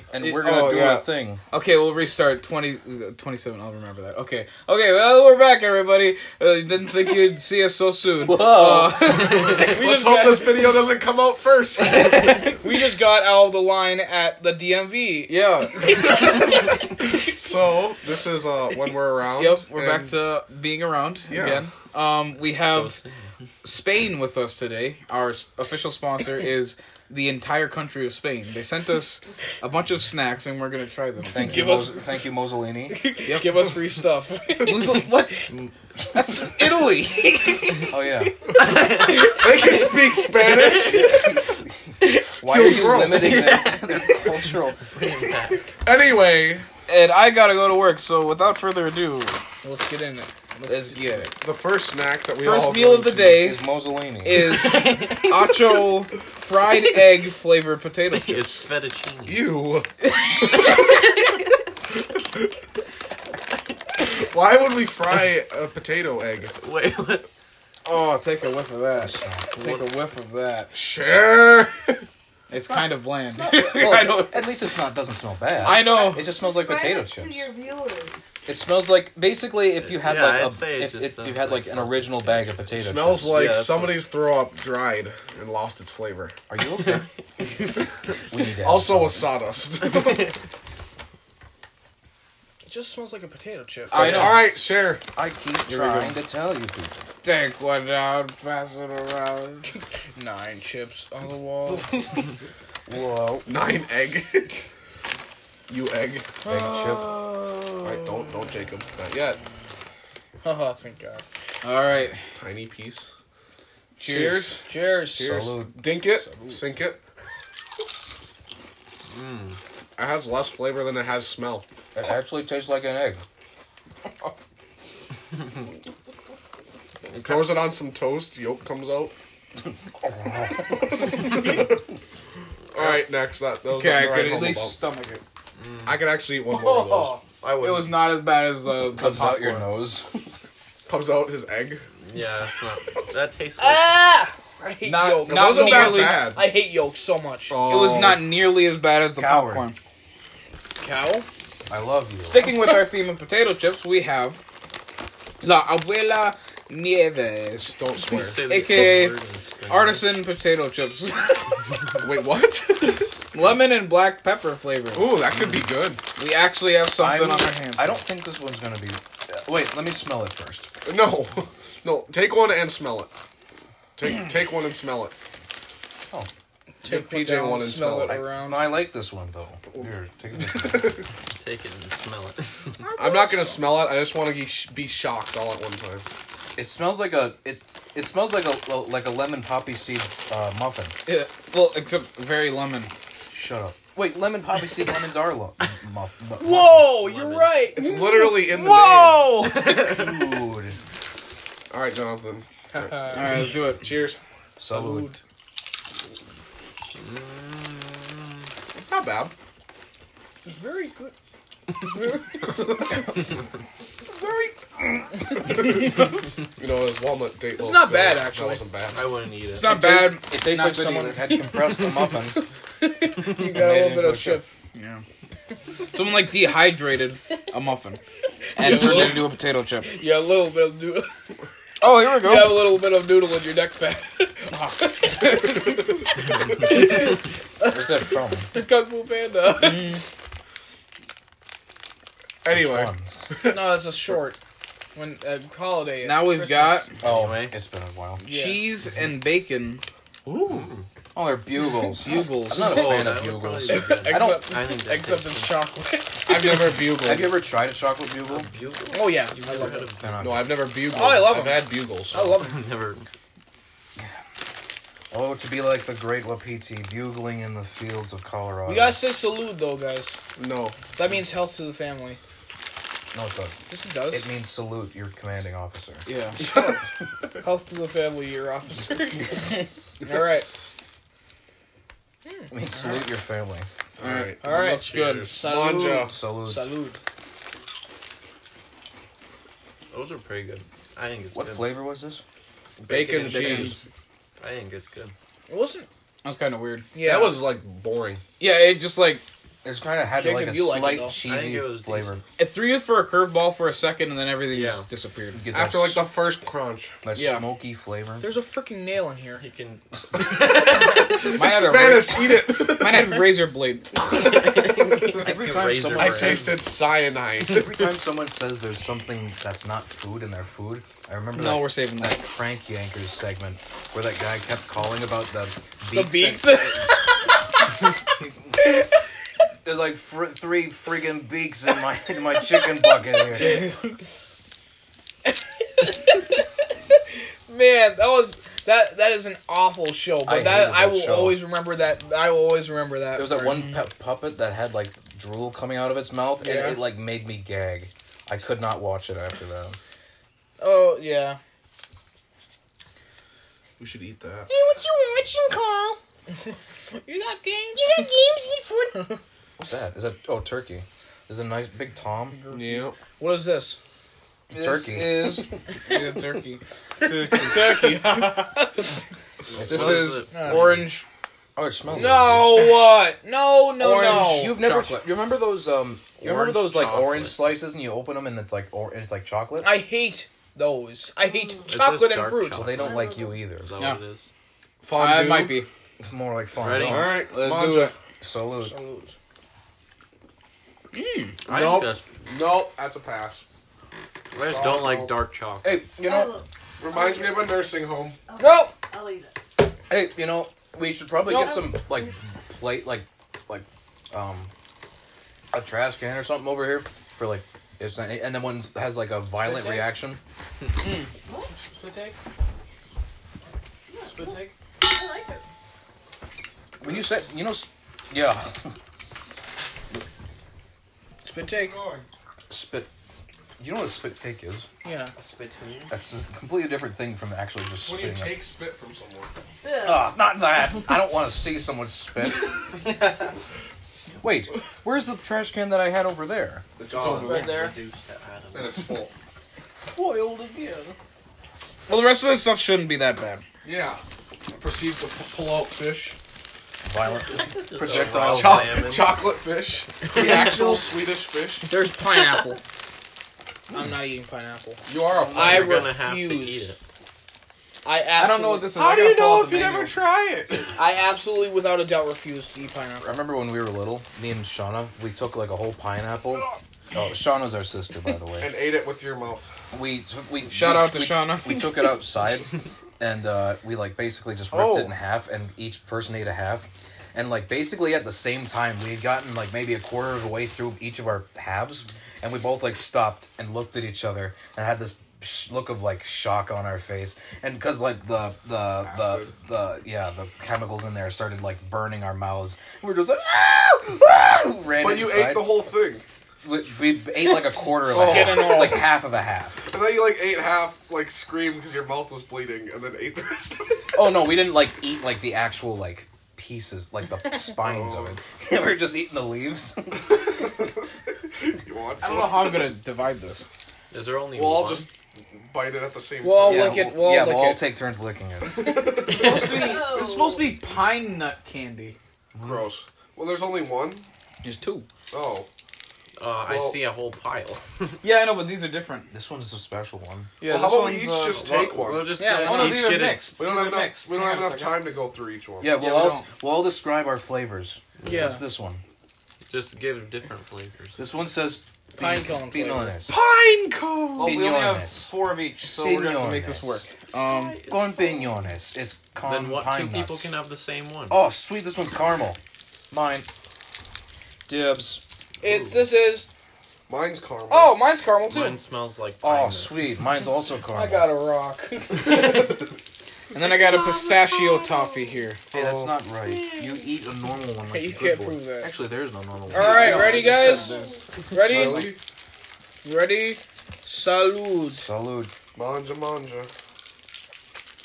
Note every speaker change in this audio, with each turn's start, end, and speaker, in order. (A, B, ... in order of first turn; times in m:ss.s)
0:00.1-0:01.4 A
0:00.2-0:10.1 B
0:08.2-0:09.6 A
0:09.1-0:12.5 C
0:09.7-0:10.5 D
0:12.1-0:16.7 D
0:15.3-0:16.0 B
0:17.3-0:20.0 C
0:19.4-0:23.0 B
0:21.3-0:21.7 C
0:22.4-0:23.3 E
0:23.6-0:31.9 B
0:31.3-0:33.0 A
0:31.4-0:32.1 D
0:32.9-0:35.1 D
0:33.2-0:33.7 B
0:34.6-0:35.5 B
0:36.1-0:38.0 B
0:37.9-0:38.3 A
0:38.6-0:39.6 E
0:39.1-0:39.9 D
0:39.2-0:41.4 C
0:40.4-0:41.0 E
0:42.3-0:44.7 A
0:42.4-0:43.4 C
0:43.0-0:44.2 E
0:44.0-0:44.8 B
0:44.9-0:45.7 E
0:45.8-0:46.7 C
0:46.9-0:49.4 B
0:49.6-0:51.3 D
0:50.7-0:51.3 B
0:51.4-0:53.4 C
0:52.4-0:53.7 B
0:53.3-0:54.6 A
0:54.2-0:58.6 B
0:58.1-0:59.5 E
0:59.3-1:01.0 C
1:00.0-1:00.7 B
1:02.2-1:02.5 C
1:04.0-1:06.5 C
1:06.5-1:07.3 E
1:07.8-1:10.7 B
1:09.0-1:09.5 A
1:09.5-1:09.9 E
1:10.7-1:12.0 C
1:12.5-1:14.5 B
1:13.3-1:17.5 A
1:15.6-1:16.3 B
1:15.8-1:18.2 F
1:18.5-1:23.5 A
1:19.8-1:24.1 E
1:22.8-1:26.4 C
1:26.5-1:27.1 A
1:26.8-1:27.0 E
1:28.3-1:29.3 A
1:28.6-1:30.3 C
1:29.8-1:30.3 E
1:32.7-1:34.4 D
1:33.9-1:34.5 B
1:33.9-1:35.0 C
1:35.2-1:37.0 A
1:35.7-1:36.2 B
1:37.2-1:39.7 B
1:40.2-1:42.2 D
1:42.9-1:43.6 A
1:43.5-1:44.6 C
1:45.7-1:46.4 C
1:46.4-1:47.8 B
1:46.5-1:47.1 A
1:47.8-1:49.4 C
1:50.4-1:51.2 D
1:51.6-1:52.2 B
1:52.4-1:53.1 C
1:54.0-1:54.6 B
1:54.1-1:54.4 C
1:54.3-1:55.5 D
1:55.2-1:57.0 C
1:55.2-1:56.5 A
1:59.1-1:59.6 E
2:00.0-2:01.7 C
2:02.0-2:03.2 A
2:07.1-2:07.7 E
2:07.1-2:09.2 C
2:10.0-2:11.6 A
2:10.9-2:11.8 C
2:12.7-2:14.8 C
2:12.8-2:13.0 E
2:13.7-2:15.2 B
2:15.6-2:16.1 E
2:15.9-2:17.2 C
2:16.4-2:17.2 D
2:17.4-2:18.2 E
2:17.6-2:19.7 B
2:18.9-2:20.1 A
2:20.9-2:21.8 C
2:22.0-2:23.9 E
2:23.6-2:28.0 D
2:24.8-2:26.2 B
2:25.2-2:26.5 C
2:27.5-2:28.3 C
2:27.6-2:29.8 B
2:29.2-2:29.7 A
2:30.8-2:31.3 D
2:31.7-2:32.4 A
2:32.2-2:34.4 B
2:35.4-2:37.8 B
2:37.7-2:38.5 C
2:38.0-2:40.2 E
2:38.4-2:41.6 B
2:42.0-2:43.1 C
2:43.3-2:45.2 B
2:44.9-2:46.0 C
2:46.2-2:48.0 B
2:47.0-2:50.7 A
2:50.8-2:53.1 C
2:54.0-2:55.2 C
2:56.8-2:58.8 D
2:56.8-2:58.3 C
2:58.4-3:01.0 A
3:00.4-3:01.0 C
3:01.4-3:02.8 E
3:02.8-3:03.6 D
3:03.0-3:06.0 C
3:06.6-3:11.0 A
3:11.1-3:12.9 B
3:13.3-3:17.2 A
3:16.4-3:20.1 D
3:17.1-3:17.6 E
3:17.7-3:19.4 C
3:19.4-3:20.0 E
3:19.8-3:20.8 A
3:21.7-3:24.2 C
3:22.7-3:23.6 D
3:23.1-3:23.9 B
3:24.6-3:25.1 A
3:24.7-3:25.2 D
3:27.0-3:28.4 E
3:28.8-3:29.3 C
3:30.4-3:31.2 D
3:31.7-3:33.0 D
3:35.5-3:36.0 C
3:35.5-3:35.8 D
3:36.6-3:39.1 C
3:37.6-3:38.6 D
3:38.9-3:39.7 E
3:39.5-3:41.1 B
3:39.6-3:42.4 A
3:39.6-3:40.2 D
3:41.0-3:44.5 D
3:43.3-3:44.4 A
3:44.7-3:45.0 B
3:45.9-3:48.0 B
3:48.6-3:49.9 B
3:48.6-3:51.1 D
3:51.8-3:52.8 B
3:52.0-4:00.0 D
3:57.6-3:58.5 A
3:59.5-4:00.0 B
4:02.4-4:04.2 C
4:02.5-4:03.1 A
4:03.4-4:04.4 D
4:05.0-4:06.9 D
4:06.0-4:06.9 B
4:07.0-4:08.2 A
4:07.0-4:07.6 E
4:08.2-4:09.8 B
4:08.2-4:08.7 D
4:10.3-4:10.7 C
4:10.5-4:10.9 E
4:11.2-4:14.6 A
4:12.0-4:12.9 B
4:12.5-4:15.7 E
4:13.7-4:16.9 D
4:16.2-4:17.4 C
4:16.9-4:18.5 A
4:18.3-4:20.5 E
4:18.9-4:19.9 D
4:20.0-4:20.7 A
4:20.2-4:22.4 C
4:20.8-4:22.7 D
4:22.4-4:23.1 E
4:25.1-4:29.0 A
4:28.7-4:30.2 D
4:30.4-4:30.8 C
4:31.0-4:32.2 D
4:33.1-4:36.1 A
4:33.7-4:34.3 D
4:36.1-4:36.4 B
4:36.4-4:36.8 D
4:37.4-4:40.5 D
4:42.3-4:43.0 D
4:42.5-4:43.7 A
4:44.0-4:44.4 C
4:44.0-4:45.3 B
4:44.4-4:47.0 D
4:45.0-4:46.2 C
4:46.1-4:46.7 A
4:49.9-4:51.8 E
4:51.4-4:52.2 A
4:52.8-4:53.9 E
4:52.9-4:53.8 C
4:53.1-4:53.8 B
4:54.4-4:55.2 E
4:55.5-4:55.9 D
4:56.2-4:56.9 B
4:56.9-4:57.5 D
4:57.0-4:58.2 C
4:58.4-4:59.2 B
4:59.6-5:02.2 A
5:00.2-5:01.2 D
5:01.2-5:02.2 E
5:02.4-5:05.4 B
5:04.5-5:04.9 E
5:05.3-5:06.1 A
5:05.5-5:07.0 C
5:07.0-5:08.3 A
5:07.1-5:07.4 B
5:08.2-5:09.4 D
5:09.4-5:11.2 E
5:10.5-5:13.3 C
5:11.4-5:14.3 B
5:14.1-5:16.7 E
5:15.1-5:16.6 A
5:16.0-5:17.8 C
5:17.5-5:27.0 A
5:21.3-5:22.2 B
5:25.9-5:27.5 D
5:28.2-5:28.8 A
5:29.6-5:33.7 A
5:33.4-5:33.8 D
5:35.3-5:43.7 D
5:40.2-5:41.4 A
5:43.1-5:49.8 A
5:46.4-5:46.8 D
5:50.6-5:51.4 D
5:53.8-5:54.5 C
5:55.3-5:56.0 D
5:57.0-5:59.2 D
5:59.6-6:02.4 A
6:02.4-6:03.8 D
6:02.5-6:03.0 C
6:04.5-6:08.0 B
6:04.5-6:05.6 A
6:07.4-6:09.0 D
6:09.5-6:10.9 E
6:09.6-6:10.2 A
6:09.7-6:11.0 B
6:10.3-6:10.8 D
6:11.6-6:12.8 A
6:11.9-6:14.9 D
6:13.8-6:14.4 B
6:13.8-6:19.8 A
6:16.2-6:17.6 E
6:19.6-6:22.8 D
6:21.2-6:21.9 F
6:21.7-6:24.3 E
6:22.5-6:23.7 A
6:22.7-6:23.5 F
6:24.8-6:25.6 C
6:24.9-6:25.7 B
6:26.0-6:27.2 A
6:26.6-6:27.2 E
6:26.8-6:28.0 C
6:27.1-6:28.0 B
6:28.2-6:28.7 A
6:28.6-6:29.2 D
6:30.9-6:31.4 B
6:31.4-6:32.1 E
6:31.5-6:33.4 C
6:34.3-6:35.8 E
6:34.4-6:35.2 C
6:35.6-6:36.2 A
6:36.0-6:37.8 F
6:36.8-6:38.2 C
6:38.3-6:39.4 F
6:38.4-6:38.8 D
6:39.9-6:44.5 A
6:41.3-6:41.5 D
6:41.3-6:42.1 F
6:45.5-6:50.2 A
6:49.4-6:49.9 D
6:50.8-6:51.1 B
6:51.2-6:51.5 F
6:51.6-6:52.2 D
6:53.9-6:55.4 F
6:54.1-6:54.5 D
6:56.8-6:58.8 A
7:01.2-7:01.8 D
7:01.5-7:02.0 C
7:02.5-7:02.9 A
7:03.6-7:04.7 A
7:04.8-7:05.1 D
7:05.2-7:05.9 E
7:05.9-7:08.4 A
7:07.8-7:09.3 C
7:09.6-7:10.6 F
7:09.8-7:12.7 A
7:14.2-7:16.7 A
7:16.8-7:17.6 C
7:16.9-7:18.9 E
7:17.1-7:17.8 D
7:18.5-7:19.1 C
7:19.8-7:21.0 A
7:21.9-7:23.4 B
7:23.6-7:24.0 C
7:24.5-7:26.2 C
7:26.8-7:28.8 A
7:27.4-7:29.2 E
7:27.9-7:31.7 C
7:30.1-7:30.8 E
7:30.2-7:30.8 D
7:30.2-7:30.5 B
7:31.7-7:32.6 D
7:33.7-7:36.7 D
7:34.8-7:35.8 C
7:35.1-7:35.8 A
7:35.4-7:36.8 E
7:37.8-7:38.8 D
7:38.2-7:40.0 B
7:38.8-7:40.8 C
7:40.8-7:43.2 D
7:43.0-7:48.5 A
7:48.4-7:49.5 C
7:49.7-8:15.7 A
7:50.5-7:51.7 B
7:54.5-7:54.9 B
8:08.8-8:09.3 C
8:14.8-8:16.1 C
8:16.4-8:19.7 A
8:17.9-8:18.9 D
8:17.9-8:18.9 C
8:19.6-8:24.1 C
8:23.9-8:30.7 A
8:27.6-8:28.2 C
8:30.0-8:32.7 C
8:32.0-8:33.5 B
8:33.9-8:34.9 E
8:34.3-8:36.9 C
8:36.2-8:37.6 D
8:36.4-8:38.8 A
8:38.4-8:39.7 C
8:39.0-8:42.0 B
8:39.4-8:40.6 F
8:42.4-8:42.7 A
8:42.4-8:44.1 C
8:44.4-8:44.9 B
8:45.1-8:45.5 C
8:46.2-8:48.0 E
8:46.4-8:46.8 C
8:48.0-8:49.1 B
8:49.1-8:50.4 A
8:50.4-8:51.6 B
8:50.4-8:52.2 C
8:51.3-8:53.4 E
8:52.1-8:54.9 B
8:52.1-8:52.8 D
8:53.3-8:55.7 C
8:55.6-8:58.8 A
8:55.7-8:56.2 B
8:58.0-8:58.4 E
8:58.0-8:58.4 D
8:59.5-9:01.0 E
9:01.0-9:03.2 A
9:02.0-9:03.0 D
9:03.1-9:04.4 C
9:04.2-9:07.6 B
9:04.2-9:05.1 A
9:05.7-9:06.8 A
9:07.3-9:08.3 F
9:07.7-9:10.3 A
9:09.2-9:11.2 E
9:11.1-9:12.4 A
9:12.9-9:13.3 A
9:14.5-9:15.0 A
9:15.4-9:16.3 D
9:15.4-9:15.8 E
9:16.9-9:17.8 C
9:17.5-9:18.6 D
9:18.2-9:20.0 E
9:19.2-9:21.2 A
9:20.7-9:22.7 D
9:23.3-9:25.4 B
9:23.4-9:25.3 F
9:25.5-9:26.0 C
9:25.5-9:30.4 A
9:26.4-9:26.8 F
9:27.7-9:28.8 D
9:29.5-9:32.0 D
9:29.6-9:31.1 B
9:30.7-9:31.1 F
9:31.4-9:32.0 C
9:32.8-9:34.9 D
9:34.7-9:35.3 A
9:35.6-9:36.5 C